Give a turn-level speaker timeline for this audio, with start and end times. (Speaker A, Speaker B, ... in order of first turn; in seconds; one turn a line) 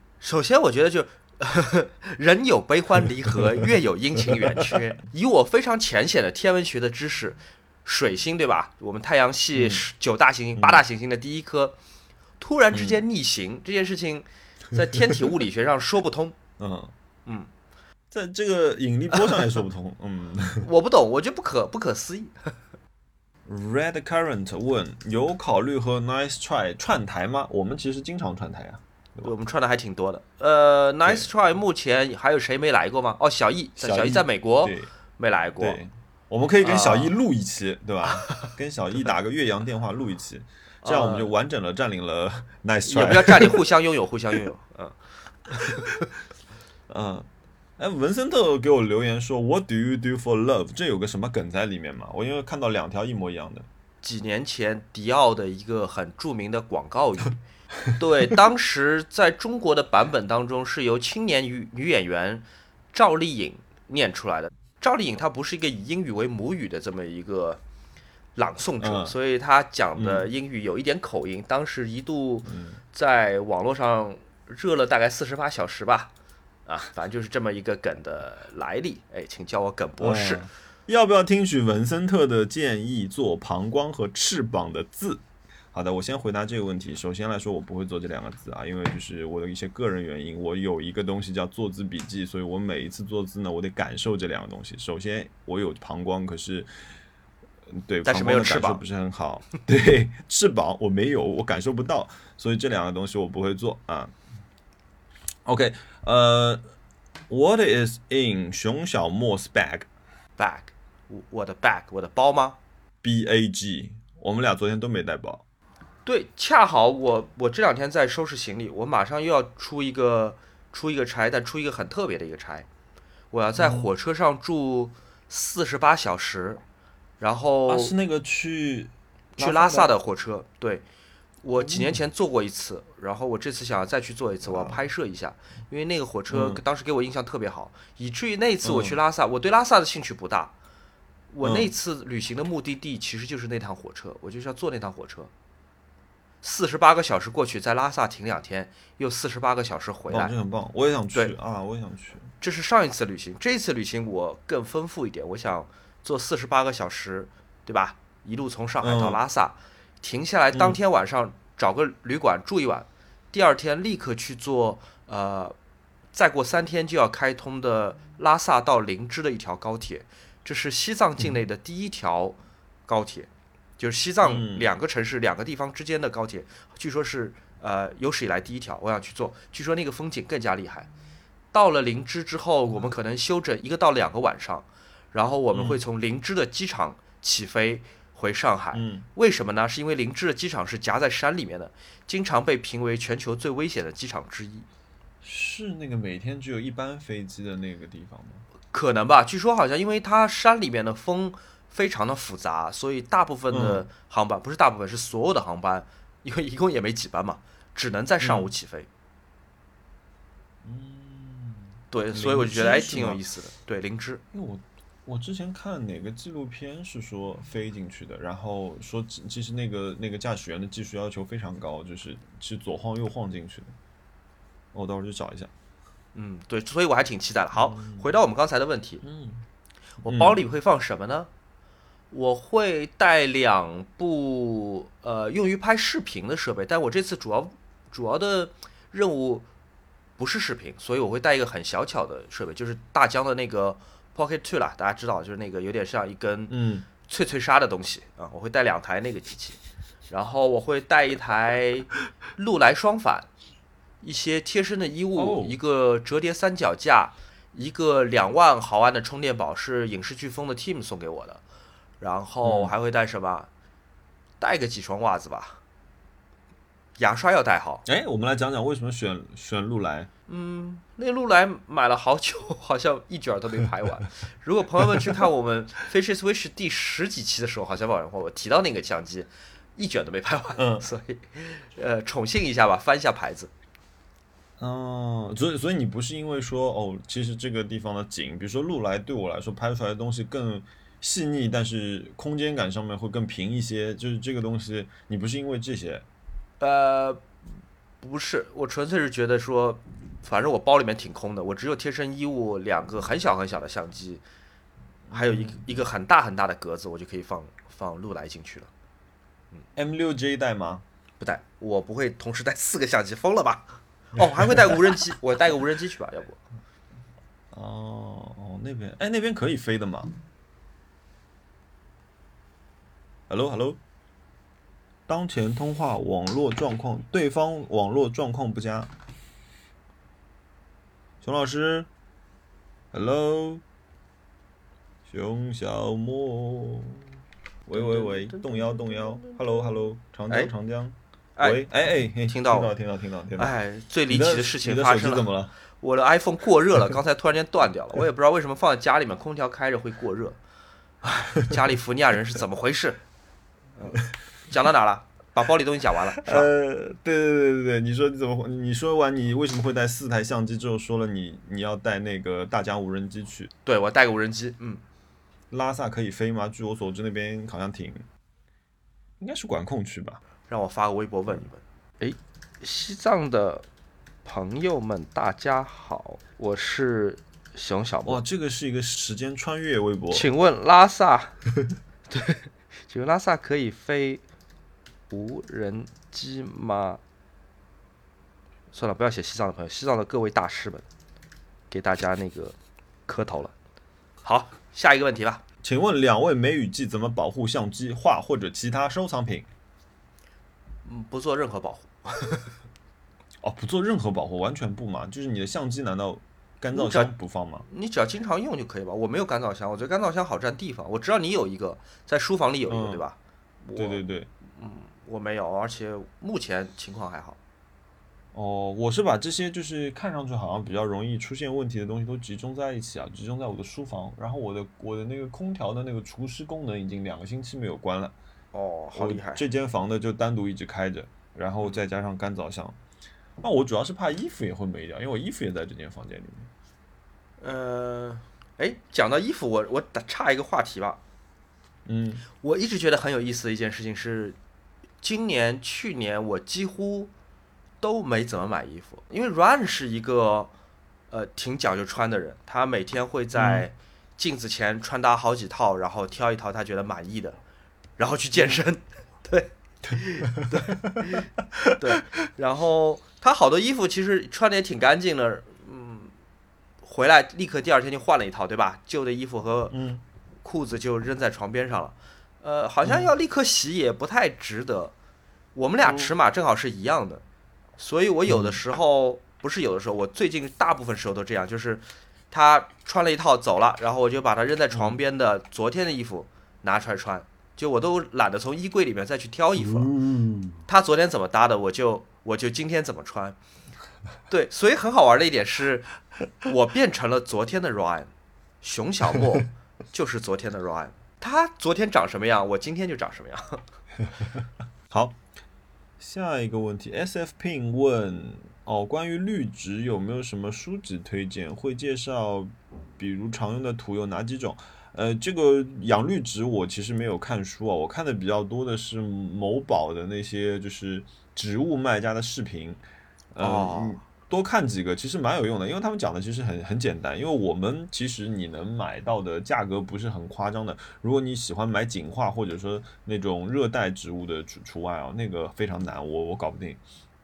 Speaker A: 0.2-11.8
Speaker B: 9.5-9.8
Speaker B: 10.6-10.8
Speaker A: 12.4-16.4
Speaker B: 12.7-13.0
Speaker B: 16.6-16.9
Speaker B: 18.1-20.6
Speaker A: 20.6-22.5
Speaker B: 23.4-29.3
Speaker A: 29.2-35.8
Speaker B: 33.8-34.9
Speaker B: 35.6-43.6
Speaker A: 36.6-37.1
Speaker A: 40.8-41.3
Speaker A: 42.9-45.0
Speaker A: 45.5-45.9
Speaker B: 46.9-47.3
Speaker B: 47.8-53.7
Speaker A: 54.0-57.4
Speaker A: 57.9-67.6
Speaker A: 68.3-76.1
Speaker B: 68.8-69.1
Speaker B: 70.0-70.3
Speaker B: 72.5-72.8
Speaker A: 76.7-80.5
Speaker B: 80.0-96.7
Speaker B: 97.7-104.1
Speaker A: 98.0-98.8
Speaker B: 105.4-106.6
Speaker B: 107.3-109.9
Speaker A: 110.4-112.6
Speaker B: 113.0-115.4
Speaker A: 116.0-122.7
Speaker A: 123.3-126.6
Speaker B: 123.6-123.9
Speaker A: 127.2-128.0
Speaker B: 127.7-129.9
Speaker A: 129.4-130.8
Speaker A: 131.4-140.5
Speaker B: 131.6-132.0
Speaker B: 134.4-134.8
Speaker B: 136.3-136.6
Speaker B: 138.6-139.0
Speaker A: 141.3-145.3
Speaker B: 141.4-141.7
Speaker A: 146.4-150.3
Speaker B: 150.1-152.3
Speaker A: 152.4-165.5
Speaker B: 158.8-159.2
Speaker A: 166.1-180.9
Speaker B: 174.2-174.7
Speaker A: 181.5-194.7
Speaker B: 185.5-185.8
Speaker B: 188.7-189.1
Speaker B: 195.2-198.4
Speaker A: 198.7-208.9
Speaker B: 203.5-203.8
Speaker B: 208.2-208.5
Speaker B: 210.6-213.2
Speaker A: 211.9-214.2
Speaker B: 214.3-223.7
Speaker B: 224.7-225.5
Speaker A: 226.1-229.0
Speaker B: 227.6-228.0
Speaker B: 229.0-229.4
Speaker B: 230.0-230.4
Speaker A: 230.0-231.3
Speaker A: 232.1-239.4
Speaker A: 240.2-253.3
Speaker B: 246.5-246.8
Speaker A: 254.0-261.4
Speaker B: 255.2-255.6
Speaker A: 262.0-263.5
Speaker B: 262.4-262.7
Speaker A: 264.4-265.6
Speaker A: 267.0-267.8
Speaker B: 267.9-270.1
Speaker A: 270.3-283.5
Speaker B: 280.6-280.9
Speaker B: 284.6-296.0
Speaker A: 296.6-297.2
Speaker A: 298.0-304.2
Speaker B: 305.1-305.7
Speaker A: 305.1-308.7
Speaker B: 309.8-310.8
Speaker A: 311.2-316.4
Speaker B: 314.4-314.8
Speaker B: 317.5-320.1
Speaker B: 323.3-323.8
Speaker B: 325.1-328.9
Speaker B: 331.2-331.9
Speaker B: 332.9-333.6
Speaker B: 335.1-337.0
Speaker B: 337.6-343.5
Speaker A: 337.7-339.6
Speaker A: 341.4-341.7
Speaker A: 342.2-342.7
Speaker A: 343.4-345.3
Speaker B: 344.1-345.5
Speaker A: 345.8-350.4
Speaker A: 351.1-353.0
Speaker A: 353.8-356.5
Speaker B: 356.2-363.5
Speaker A: 363.6-364.8
Speaker B: 365.5-368.0
Speaker B: 369.2-370.2
Speaker A: 370.5-373.6
Speaker A: 374.2-378.2
Speaker B: 378.1-380.3
Speaker A: 380.1-381.4
Speaker A: 382.1-384.2
Speaker A: 385.1-387.0
Speaker A: 388.7-390.9
Speaker A: 391.7-392.6
Speaker A: 393.1-393.5
Speaker A: 394.2-395.4
Speaker B: 395.6-399.4
Speaker A: 400.8-402.5
Speaker B: 403.4-407.6
Speaker A: 406.7-407.1
Speaker A: 407.7-417.4
Speaker B: 412.7-413.0
Speaker B: 413.8-414.3
Speaker B: 418.3-428.1
Speaker A: 428.5-429.4
Speaker B: 428.9-432.8
Speaker B: 433.4-436.5
Speaker A: 437.4-441.0
Speaker B: 441.9-442.2
Speaker A: 442.4-444.4
Speaker A: 445.0-447.1
Speaker A: 447.8-450.5
Speaker A: 451.1-457.4
Speaker B: 453.4-453.6
Speaker A: 458.0-466.1
Speaker B: 460.4-460.9
Speaker A: 466.8-469.8
Speaker B: 469.7-470.0
Speaker A: 470.4-474.9
Speaker B: 472.8-473.1
Speaker A: 475.5-477.2
Speaker B: 475.8-476.1
Speaker A: 477.8-489.9
Speaker B: 478.3-478.6
Speaker B: 484.7-485.0
Speaker B: 489.6-490.6
Speaker A: 490.7-493.4
Speaker A: 494.3-495.9
Speaker A: 496.4-498.1
Speaker A: 498.6-503.6
Speaker B: 504.9-505.2
Speaker B: 506.0-522.8
Speaker B: 523.3-536.8
Speaker A: 523.4-524.0